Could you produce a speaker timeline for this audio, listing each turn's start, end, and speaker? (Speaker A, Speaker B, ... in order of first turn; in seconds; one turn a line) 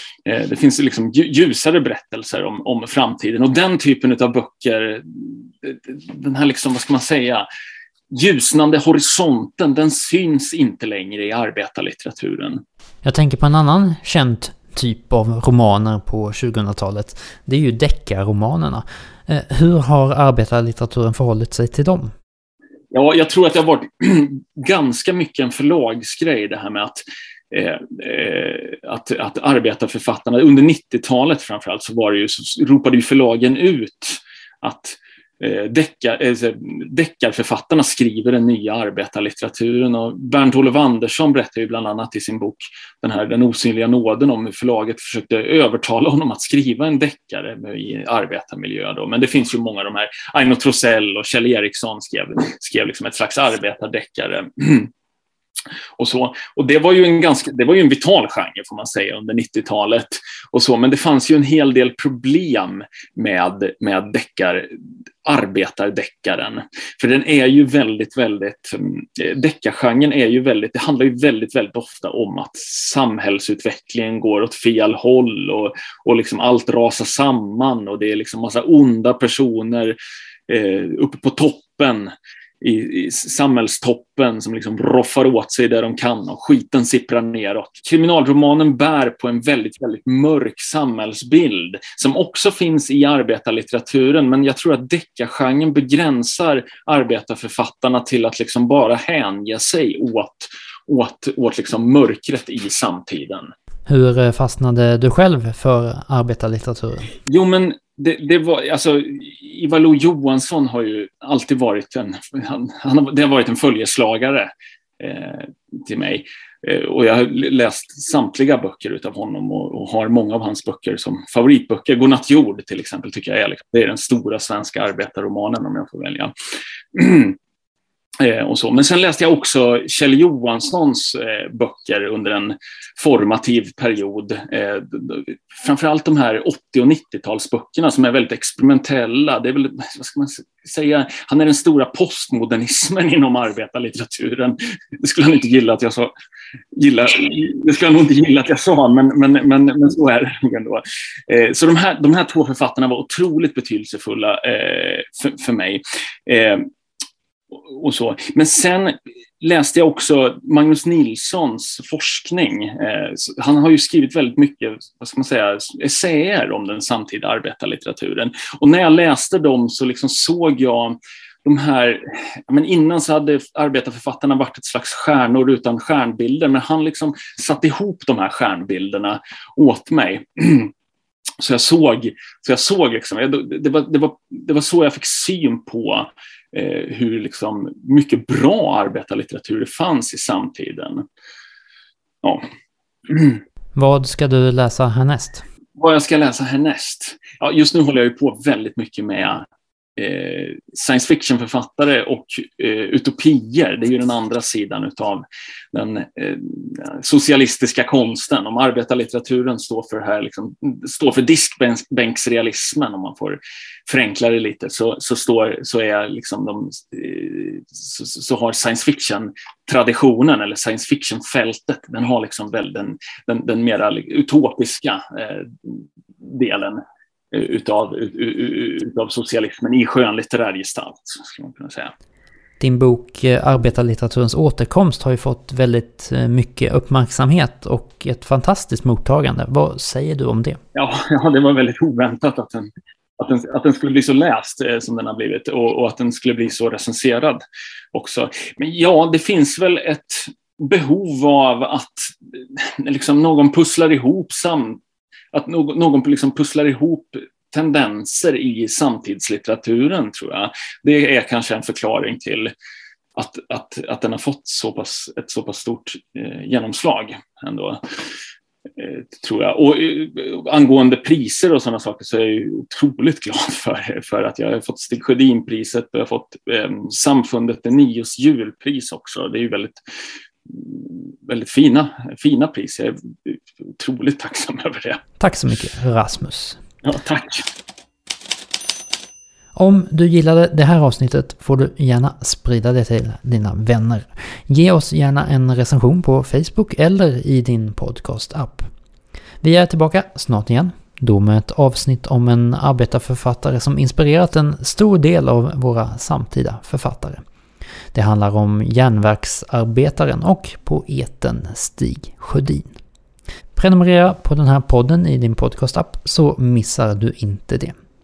Speaker A: 0.2-7.5
Speaker A: 8.1-12.6
Speaker B: 13.0-22.1
Speaker A: 22.9-54.9
Speaker A: 56.0-64.7
Speaker A: 65.3-80.0
Speaker A: 80.5-103.5
Speaker B: 103.9-107.1
Speaker A: 107.3-126.3
Speaker A: 126.9-127.4
Speaker A: 128.2-146.1
Speaker A: 146.7-156.7
Speaker A: 157.6-180.7
Speaker A: 181.4-191.1
Speaker A: 193.1-193.4
Speaker B: 193.8-195.4
Speaker A: 195.8-231.9
Speaker B: 232.6-240.6
Speaker A: 240.8-247.4
Speaker A: 247.9-254.8
Speaker A: 255.3-262.5
Speaker A: 263.1-267.9
Speaker A: 268.8-279.8
Speaker A: 280.5-285.0
Speaker B: 285.2-286.6
Speaker A: 286.8-287.5
Speaker B: 289.6-298.7
Speaker B: 299.4-307.2
Speaker B: 307.9-312.7
Speaker B: 313.6-317.7